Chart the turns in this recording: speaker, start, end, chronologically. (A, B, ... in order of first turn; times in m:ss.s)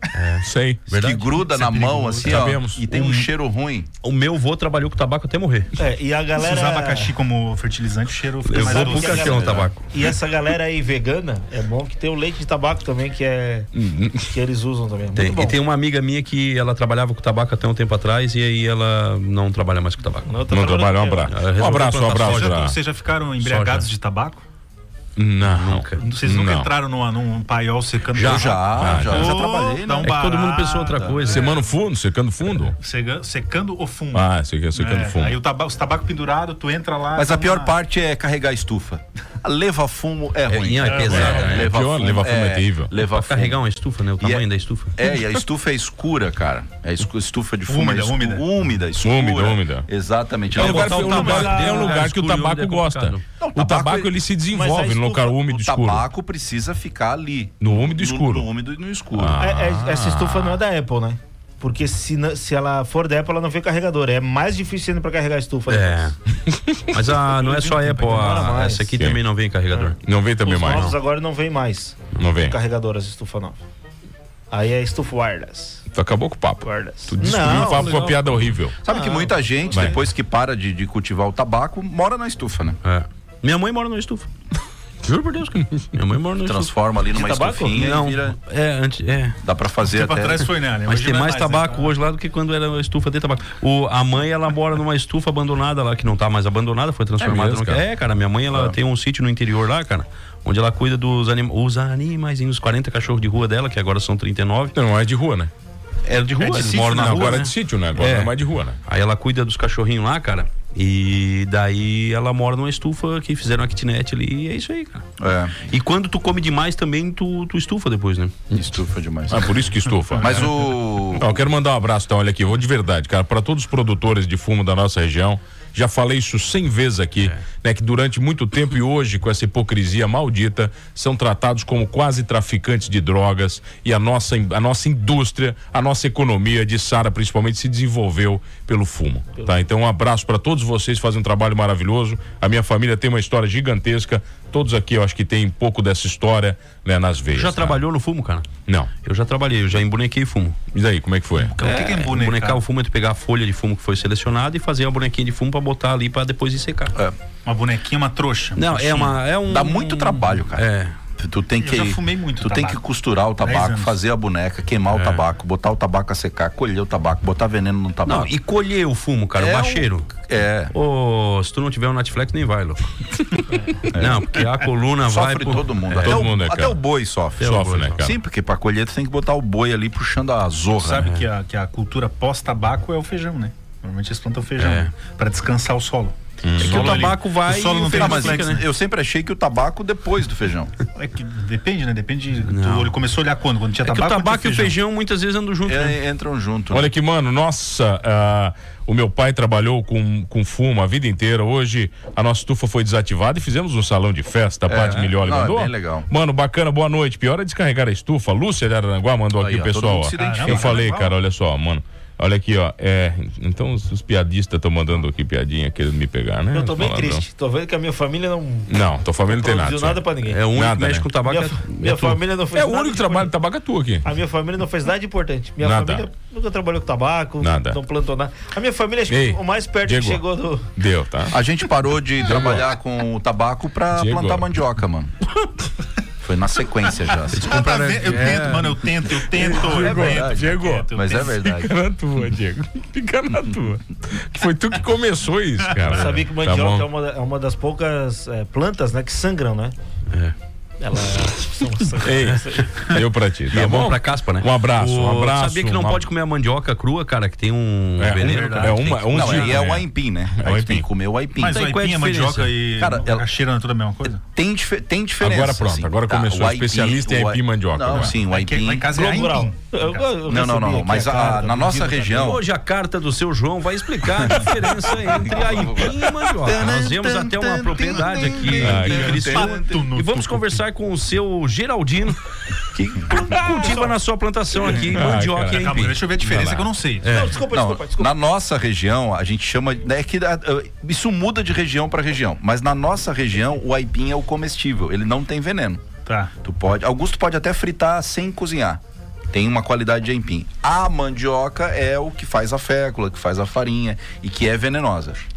0:00.1-0:01.3 A
0:00.4-0:00.9 B
0:00.9-0:03.9 C
0:01.3-0:02.5 D
0:02.2-0:02.9 B
0:02.9-0:03.3 A
0:04.0-0:05.7 A
0:05.8-0:07.1 E
0:06.4-0:09.6 D
0:08.4-0:09.8 A
0:08.5-0:13.7 E
0:09.2-0:09.7 C
0:13.7-0:14.3 B
0:14.2-0:15.6 E
0:15.1-0:20.3 A
0:20.2-0:21.4 E
0:20.5-0:22.8 B
0:21.3-0:22.6 A
0:21.9-0:24.4 D
0:23.4-0:23.9 A
0:25.2-0:26.7 B
0:25.4-0:26.0 A
0:26.0-0:31.6 D
0:28.1-0:29.3 A
0:28.1-0:30.3 C
0:28.7-0:29.4 B
0:30.0-0:31.6 A
0:31.3-0:32.8 B
0:32.6-0:37.7 D
0:34.1-0:35.4 B
0:37.2-0:43.6 C
0:40.5-0:41.7 A
0:40.8-0:41.6 D
0:41.1-0:42.9 B
0:43.0-0:44.9 A
0:44.2-0:51.5 C
0:47.7-0:48.5 D
0:49.0-0:49.8 B
0:50.5-0:53.2 A
0:50.5-0:56.0 B
0:50.7-0:52.1 E
0:53.4-0:54.1 C
0:54.5-0:55.4 E
0:55.3-0:59.4 C
0:57.6-0:58.5 B
0:59.1-1:00.6 B
0:59.4-1:06.1 E
1:05.7-1:06.2 A
1:06.5-1:07.0 B
1:06.9-1:10.0 A
1:07.2-1:09.0 E
1:09.7-1:13.6 E
1:10.0-1:10.9 B
1:10.6-1:11.0 A
1:12.2-1:12.5 B
1:14.5-1:15.8 E
1:15.9-1:18.7 B
1:16.6-1:18.0 E
1:17.2-1:18.5 A
1:18.8-1:22.8 C
1:18.8-1:19.9 E
1:19.7-1:20.0 B
1:22.8-1:24.3 A
1:25.0-1:26.7 A
1:26.4-1:28.4 C
1:27.1-1:27.9 E
1:27.7-1:29.4 A
1:29.4-1:30.4 C
1:29.9-1:32.0 D
1:30.8-1:44.7 A
1:37.2-1:37.8 B
1:44.7-1:45.5 B
1:46.0-1:55.0 A
1:46.4-1:47.5 D
1:46.8-1:48.8 B
1:55.2-1:55.6 C
1:55.6-1:58.3 A
1:58.5-1:59.6 C
1:59.3-2:27.8 B
2:00.2-2:01.4 C
2:27.3-2:30.6 A
2:28.7-2:28.9 B
2:30.7-2:31.6 B
2:31.4-2:32.6 D
2:31.6-2:36.9 A
2:37.4-2:39.2 D
2:38.5-2:40.9 A
2:39.4-2:40.6 C
2:41.2-2:48.3 C
2:41.6-2:42.8 D
2:43.4-2:44.0 D
2:44.9-2:45.2 A
2:48.0-2:50.1 A
2:49.4-2:50.7 C
2:50.7-2:56.3 A
2:53.9-2:54.4 C
2:55.0-3:01.1 C
2:56.0-2:56.8 B
2:57.4-2:58.0 A
2:57.4-2:58.1 B
3:00.8-3:08.6 D
3:04.6-3:04.9 A
3:06.4-3:07.1 B
3:06.6-3:08.6 A
3:07.9-3:10.7 C
3:10.9-3:14.8 D
3:12.4-3:13.0 A
3:13.8-3:16.0 A
3:15.6-3:16.9 C
3:16.7-3:37.2 B
3:24.7-3:26.1 C
3:29.4-3:30.8 C
3:30.2-3:31.2 D
3:36.5-3:40.4 E
3:38.7-3:41.1 B
3:40.2-3:42.2 A
3:41.2-3:43.3 E
3:42.5-3:44.0 B
3:44.0-3:50.7 E
3:45.6-3:46.0 B
3:47.4-3:47.8 B
3:49.1-3:50.2 B
3:50.8-3:51.4 B
3:51.3-3:55.1 C
3:52.2-3:52.7 B
3:53.9-3:54.4 B
3:56.2-3:57.5 C
3:57.3-3:58.8 A
3:57.4-4:01.3 D
3:58.2-4:06.8 B
3:59.8-4:01.7 C
4:05.8-4:09.7 E
4:10.8-4:13.0 E
4:12.0-4:16.1 B
4:13.5-4:19.5 A
4:18.0-4:20.8 B
4:18.2-4:19.5 D
4:19.1-4:21.6 C
4:21.4-4:24.2 D
4:21.4-4:22.6 A
4:22.8-4:23.2 C
4:24.2-4:28.9 C
4:25.2-4:28.2 B
4:28.1-4:30.1 D
4:28.9-4:32.4 E
4:30.2-4:32.4 C
4:32.2-4:42.2 A
4:35.0-4:39.9 C
4:38.6-4:39.1 B
4:38.7-4:40.6 D
4:42.7-4:46.2 A
4:43.2-4:44.0 E
4:43.4-4:43.6 B
4:44.8-4:46.7 B
4:45.5-4:47.3 D
4:47.0-4:47.4 A
4:47.0-4:48.2 E
4:47.5-4:55.8 C
4:56.0-4:56.3 D
4:56.4-4:58.8 C
4:59.3-5:05.2 C